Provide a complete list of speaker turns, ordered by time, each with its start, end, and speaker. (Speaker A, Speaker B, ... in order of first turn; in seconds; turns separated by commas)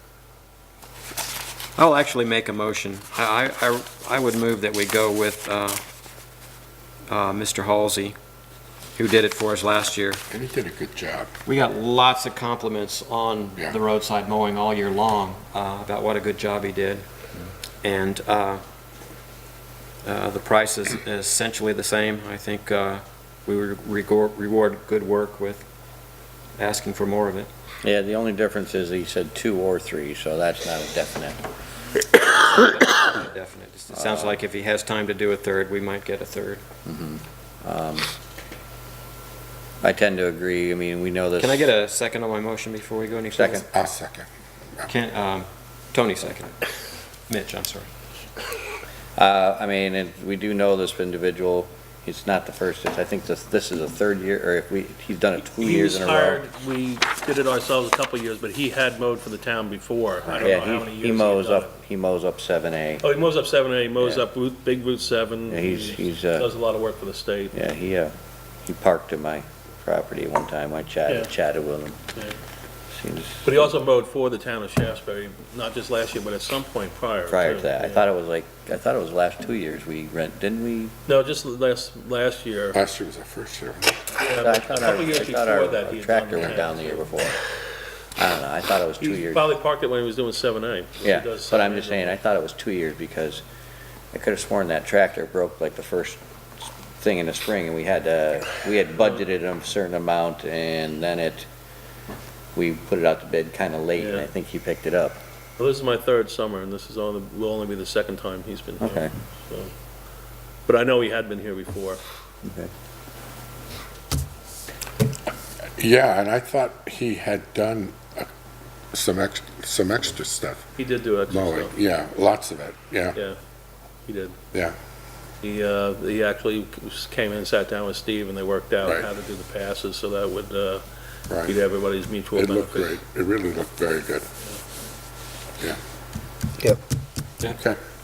Speaker A: 1.8-5.8, Speaker A: 7.1-8.2, Speaker A: 8.9-10.2, Speaker B: 10.3-11.3, Speaker A: 11.4-17.0, Speaker A: 17.8-18.6, Speaker A: 20.0-25.6, Speaker A: 26.6-27.5, Speaker C: 27.8-31.4, Speaker A: 32.2-36.6, Speaker C: 33.9-34.4, Speaker C: 36.8-38.1, Speaker C: 39.8-41.7, Speaker A: 41.4-43.6, Speaker C: 43.3-43.7, Speaker B: 43.7-44.3, Speaker A: 44.9-46.6, Speaker A: 47.3-47.9, Speaker C: 49.1-56.4, Speaker D: 55.6-61.7, Speaker C: 60.3-63.0, Speaker D: 63.0-67.5, Speaker C: 65.5-66.5, Speaker C: 67.5-72.0, Speaker C: 72.9-73.7, Speaker D: 73.4-78.0, Speaker C: 77.3-80.9, Speaker D: 81.1-82.8, Speaker B: 82.7-84.0, Speaker D: 84.2-87.2, Speaker C: 84.4-87.4, Speaker C: 88.2-89.5, Speaker D: 89.0-92.2, Speaker C: 91.0-93.4, Speaker C: 94.1-101.5, Speaker C: 102.5-105.2, Speaker D: 104.0-104.3, Speaker D: 105.6-109.7, Speaker C: 108.8-109.1, Speaker D: 110.7-112.0, Speaker C: 112.4-112.7, Speaker B: 115.8-118.3, Speaker B: 118.9-120.6, Speaker D: 120.8-121.7, Speaker B: 121.3-123.2, Speaker D: 124.1-124.4, Speaker D: 125.4-130.8, Speaker B: 131.3-131.5, Speaker D: 131.4-132.9, Speaker B: 132.3-134.2